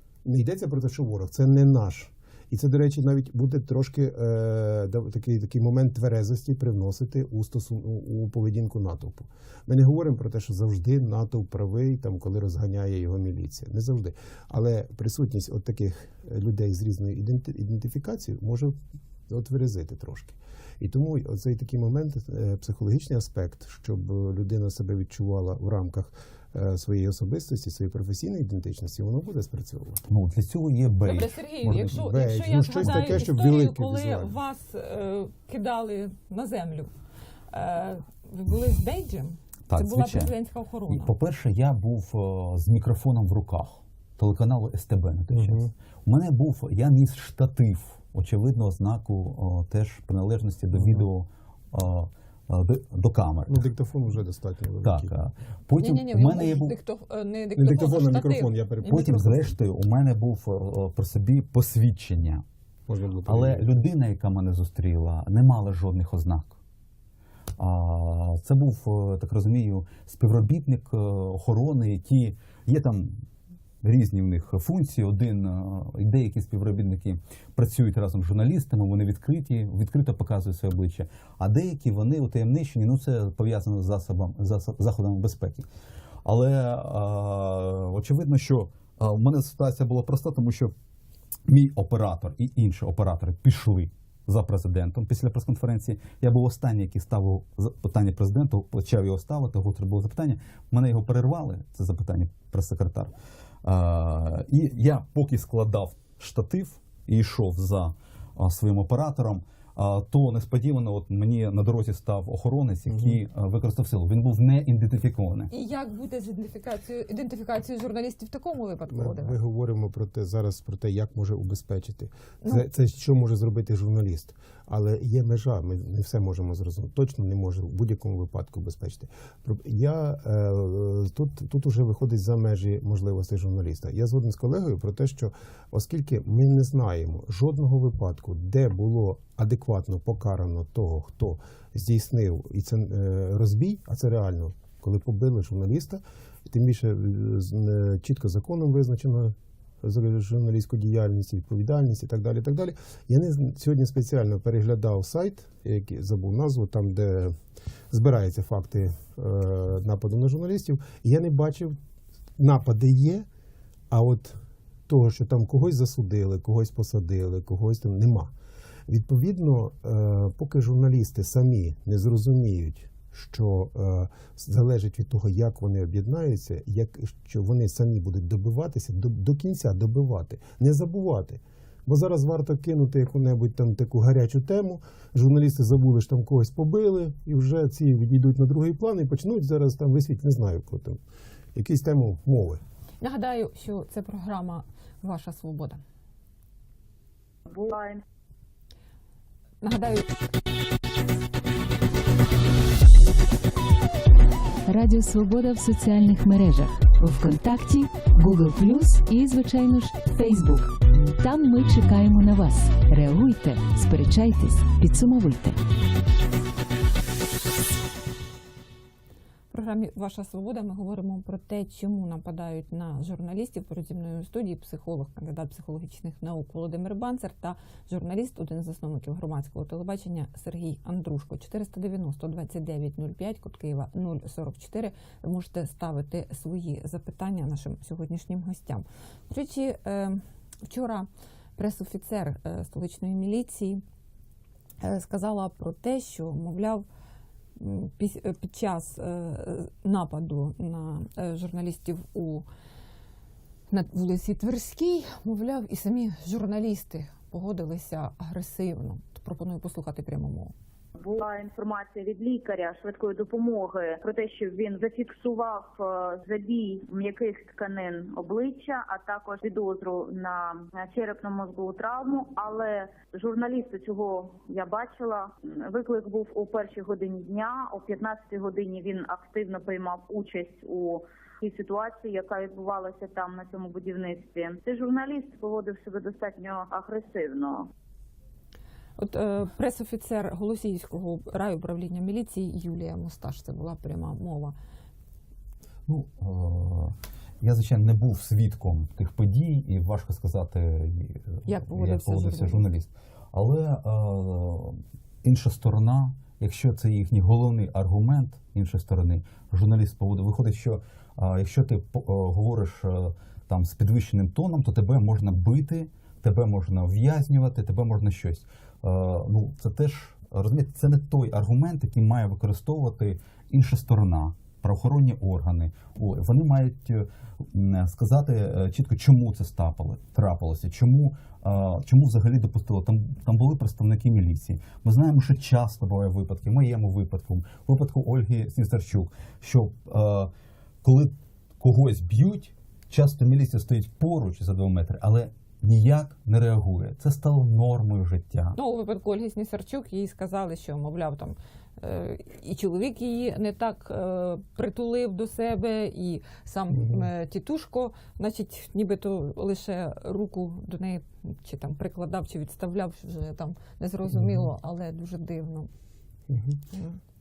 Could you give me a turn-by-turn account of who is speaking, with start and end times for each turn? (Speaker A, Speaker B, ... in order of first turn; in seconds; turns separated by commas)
Speaker A: 0.2-18.8, Speaker A: 19.3-30.0, Speaker B: 30.1-32.0, Speaker C: 31.1-36.9, Speaker A: 31.7-34.3, Speaker B: 32.8-33.2, Speaker C: 37.5-41.1, Speaker B: 39.7-40.3, Speaker B: 40.9-53.7, Speaker A: 45.3-45.7, Speaker A: 50.7-51.1, Speaker A: 53.5-55.1, Speaker B: 54.8-56.8, Speaker C: 55.8-58.6, Speaker A: 57.6-59.6, Speaker B: 58.8-62.4, Speaker A: 62.9-63.7, Speaker B: 63.3-66.6, Speaker B: 67.6-73.2, Speaker B: 73.8-85.7, Speaker B: 86.2-90.7, Speaker B: 91.5-115.5, Speaker A: 112.9-113.2, Speaker C: 115.5-119.4, Speaker A: 118.9-157.4, Speaker A: 157.9-161.8, Speaker A: 162.4-163.3, Speaker A: 163.9-168.3, Speaker A: 168.9-191.0, Speaker A: 191.6-192.6, Speaker C: 193.0-195.8, Speaker D: 197.5-198.0, Speaker C: 199.6-200.2, Speaker E: 204.7-215.6, Speaker C: 219.5-243.8, Speaker C: 244.8-246.9, Speaker C: 247.6-252.5, Speaker C: 253.7-260.5, Speaker D: 261.0-287.7, Speaker C: 289.0-294.6, Speaker B: 295.9-340.3, Speaker C: 301.5-302.7, Speaker B: 340.8-348.6, Speaker C: 348.6-365.7, Speaker A: 356.7-357.1, Speaker A: 364.1-364.5, Speaker A: 366.3-366.6, Speaker C: 366.7-367.0